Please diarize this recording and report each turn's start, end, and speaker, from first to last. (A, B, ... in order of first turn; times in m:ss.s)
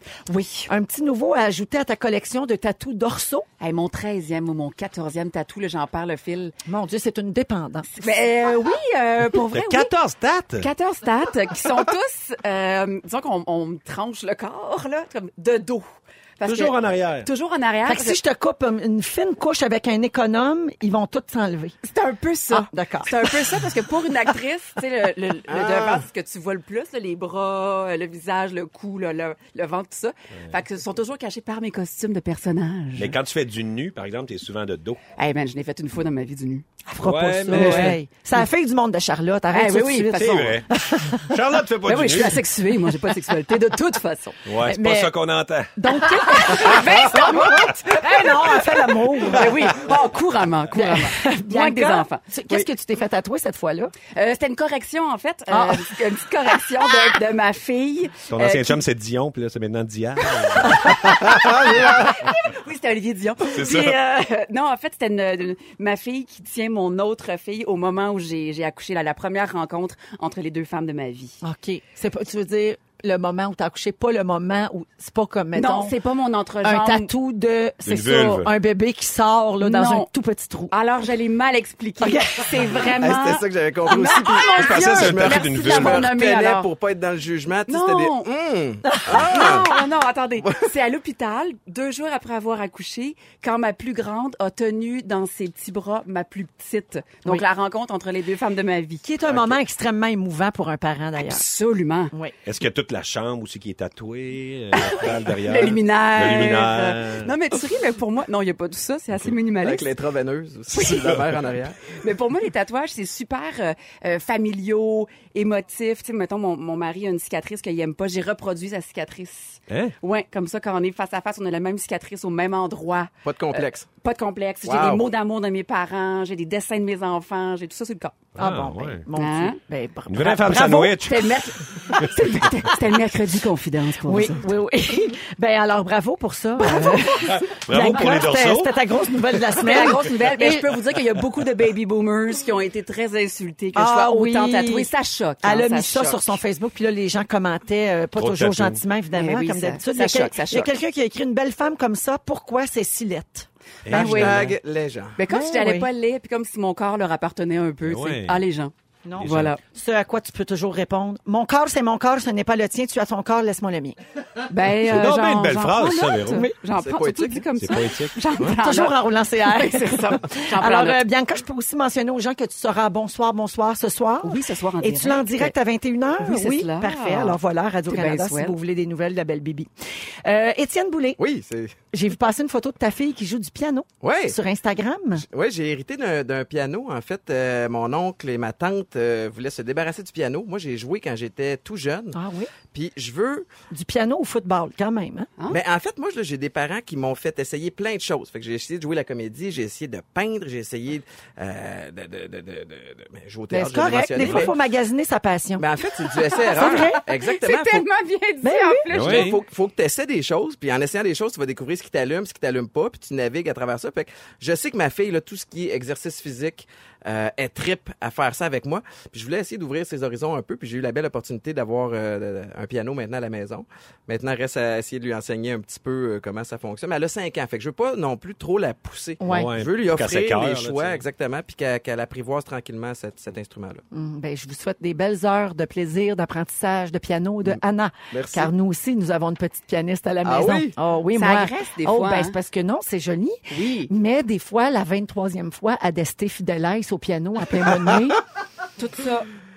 0:00.3-0:00.7 A
0:00.7-0:03.5 B
0:03.6-0:06.5 A
0:06.7-0:08.2 B
0:07.9-0:09.9 A
0:09.5-0:10.7 C
0:10.6-0:15.9 A
0:16.4-0:18.2 A
0:16.4-0:17.3 C
0:17.9-0:21.8 B
0:21.8-0:33.2 A
0:22.5-0:23.4 B
0:25.5-0:26.1 D
0:33.0-0:35.0 C
0:35.2-0:36.7 A
0:36.9-0:41.3 B
0:37.0-0:38.0 C
0:37.5-0:38.0 A
0:39.5-0:40.6 A
0:40.2-0:42.4 C
0:41.8-0:44.4 A
0:44.5-0:47.2 C
0:44.6-0:45.1 B
0:45.8-0:49.8 B
0:46.0-0:48.6 A
0:49.2-0:52.7 A
0:50.8-0:53.9 B
0:54.1-0:58.8 A
0:55.5-0:56.0 B
0:58.3-1:02.2 C
1:00.4-1:11.4 A
1:03.5-1:04.0 C
1:11.4-1:16.0 B
1:15.6-1:17.1 A
1:16.6-1:20.7 B
1:17.8-1:18.5 C
1:19.6-1:20.1 A
1:20.7-1:23.4 A
1:22.0-1:23.4 B
1:23.0-1:29.7 D
1:23.9-1:26.7 A
1:24.6-1:26.1 C
1:27.7-1:28.3 A
1:28.9-1:29.6 B
1:29.1-1:39.1 A
1:39.0-1:41.4 B
1:41.2-1:42.1 A
1:42.5-1:47.3 C
1:44.8-1:49.9 A
1:49.6-1:52.0 D
1:50.7-1:51.1 A
1:51.9-2:08.2 A
1:59.7-1:59.9 C
2:03.2-2:03.9 D
2:04.6-2:05.0 D
2:08.4-2:11.1 B
2:08.4-2:09.0 C
2:09.2-2:09.6 A
2:10.1-2:11.3 C
2:10.5-2:14.5 A
2:11.9-2:12.8 B
2:14.0-2:20.8 B
2:16.6-2:17.4 A
2:17.3-2:18.8 C
2:19.6-2:26.4 A
2:23.8-2:24.9 B
2:25.4-2:34.4 B
2:28.2-2:28.8 C
2:29.1-2:30.7 A
2:33.8-2:34.5 C
2:33.9-2:34.4 A
2:33.9-2:35.2 D
2:35.2-2:39.6 A
2:35.2-2:35.9 B
2:37.8-2:38.4 C
2:39.0-2:44.0 B
2:39.2-2:39.5 C
2:44.5-2:51.0 A
2:44.6-2:46.5 C
2:46.2-2:46.5 B
2:46.8-2:47.5 D
2:47.6-2:48.2 C
2:48.4-2:59.7 B
2:54.2-2:55.6 A
2:56.2-2:58.6 A
3:00.2-3:01.2 B
3:01.2-3:01.8 D
3:01.9-3:05.3 B
3:04.0-3:04.4 D
3:05.3-3:12.2 D
3:12.1-3:12.5 B
3:12.7-3:13.5 D
3:13.7-3:15.3 B
3:15.5-3:24.6 D
3:23.5-3:25.7 B
3:24.2-3:24.5 C
3:25.6-3:27.7 D
3:26.3-3:29.3 A
3:26.5-3:27.8 B
3:28.4-3:29.2 B
3:28.9-3:29.4 C
3:28.9-3:53.8 D
3:49.2-3:49.6 B
3:49.3-3:51.0 C
3:53.9-4:08.2 B
3:58.1-3:58.5 D
4:00.2-4:00.8 D
4:01.1-4:02.4 A
4:03.5-4:03.9 A
4:08.8-4:09.3 A